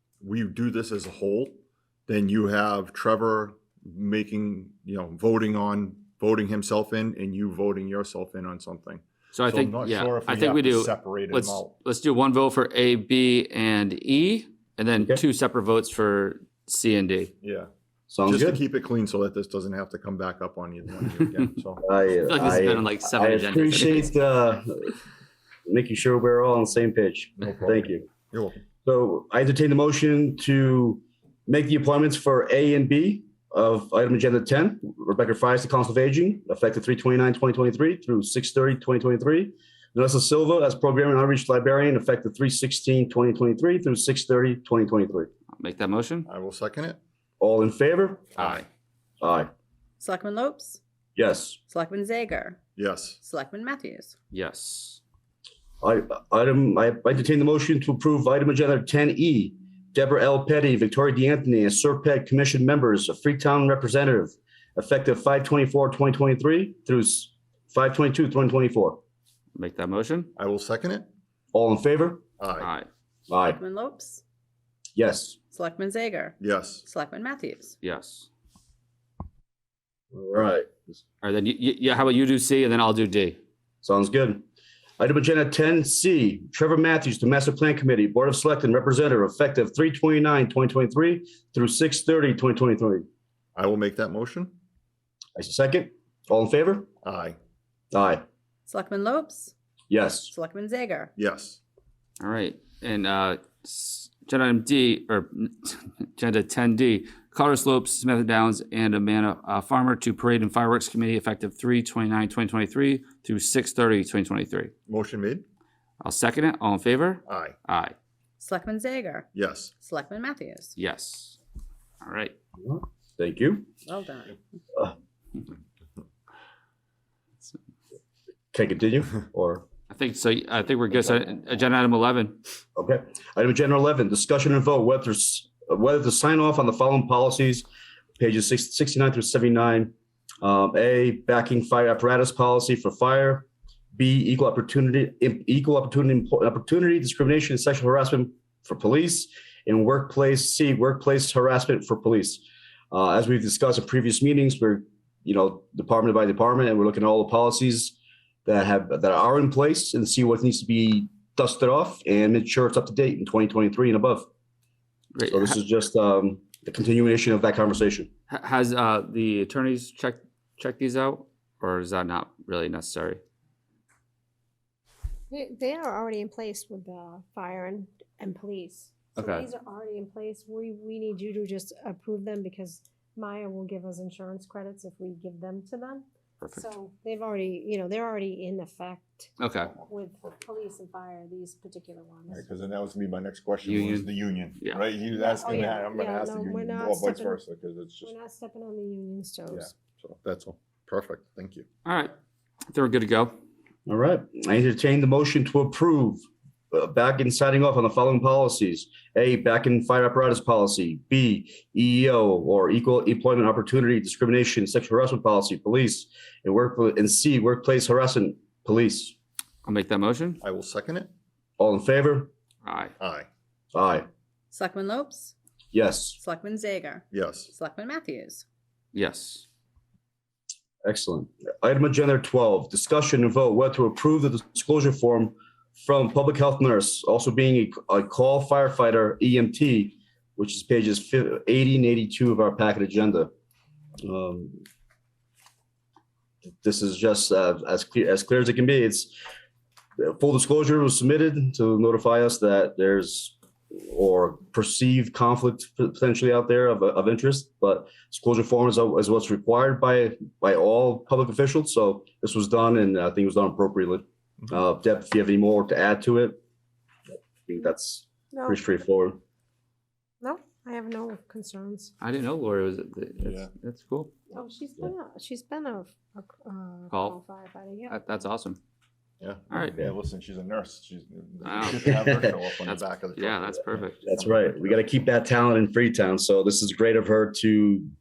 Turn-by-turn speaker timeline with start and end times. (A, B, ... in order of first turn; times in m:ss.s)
0:00.2-0:11.7 A
0:09.3-0:17.3 B
0:17.4-0:17.7 A
0:18.1-0:18.6 C
0:18.2-0:21.8 A
0:21.8-0:25.0 C
0:22.2-0:24.1 B
0:25.7-0:28.1 C
0:27.4-0:28.6 A
0:28.8-0:45.3 C
0:45.6-0:46.3 B
0:46.3-0:47.0 A
0:47.4-0:48.3 C
0:48.4-0:48.7 A
0:49.2-0:49.5 C
0:50.0-0:50.8 D
0:51.2-0:51.6 C
0:51.7-0:52.6 D
0:52.8-0:53.2 A
0:53.2-0:54.2 D
0:54.3-0:55.0 B
0:55.8-1:09.0 C
1:09.6-1:10.3 B
1:10.4-1:11.1 A
1:11.5-1:12.2 C
1:12.4-1:12.7 A
1:12.6-1:12.9 B
1:13.3-1:13.6 C
1:13.4-1:14.2 D
1:15.0-1:15.4 C
1:15.5-1:17.8 D
1:16.4-1:16.8 A
1:17.8-1:18.3 B
1:20.1-1:21.0 C
1:21.2-1:23.4 B
1:23.8-1:24.4 C
1:25.0-1:33.1 C
1:33.6-1:34.6 A
1:35.4-1:36.9 C
1:37.0-1:37.4 A
1:37.9-1:38.2 C
1:38.7-1:39.5 D
1:39.9-1:40.3 C
1:40.3-1:41.1 D
1:41.2-1:41.6 A
1:42.2-1:54.7 B
1:54.9-1:55.4 A
1:56.0-1:58.0 B
1:57.3-1:57.6 A
1:58.4-1:59.3 D
1:59.3-1:59.7 A
1:59.8-2:00.8 D
2:00.8-2:01.4 B
2:02.0-2:02.3 B
2:02.6-2:03.7 C
2:03.8-2:04.4 D
2:08.5-2:09.6 C
2:09.9-2:12.4 B
2:12.8-2:17.7 C
2:18.2-2:44.3 C
2:45.2-2:45.6 B
2:45.3-2:48.1 C
2:48.3-2:53.2 B
2:55.3-3:12.4 E
2:59.2-2:59.5 B
3:06.4-3:06.7 B
3:09.4-3:09.7 B
3:12.3-3:18.1 A
3:13.6-3:14.1 B
3:15.2-3:17.4 E
3:18.0-3:19.7 E
3:19.5-3:21.6 A
3:21.8-3:22.1 B
3:22.7-3:23.4 B
3:23.9-3:39.2 C
3:39.6-3:40.4 B
3:40.4-3:41.1 A
3:41.6-3:42.3 C
3:42.6-3:42.9 B
3:43.0-3:43.3 A
3:43.7-3:44.1 C
3:44.5-3:45.4 D
3:45.7-3:46.2 C
3:46.2-3:48.4 D
3:47.1-3:47.5 A
3:48.9-3:49.5 B
3:50.8-4:03.3 C
4:04.0-4:04.6 C
4:06.4-4:09.1 C
4:10.0-4:26.4 C
4:27.4-4:29.2 C
4:28.3-4:28.6 E
4:30.2-4:31.9 E
4:32.0-4:34.1 B
4:33.2-4:33.5 A
4:34.3-4:38.2 E
4:36.9-4:37.2 B
4:37.9-4:38.6 B
4:39.2-4:44.9 A
4:39.5-4:39.8 B
4:41.4-4:42.0 B
4:42.6-4:44.0 B
4:44.0-4:47.9 C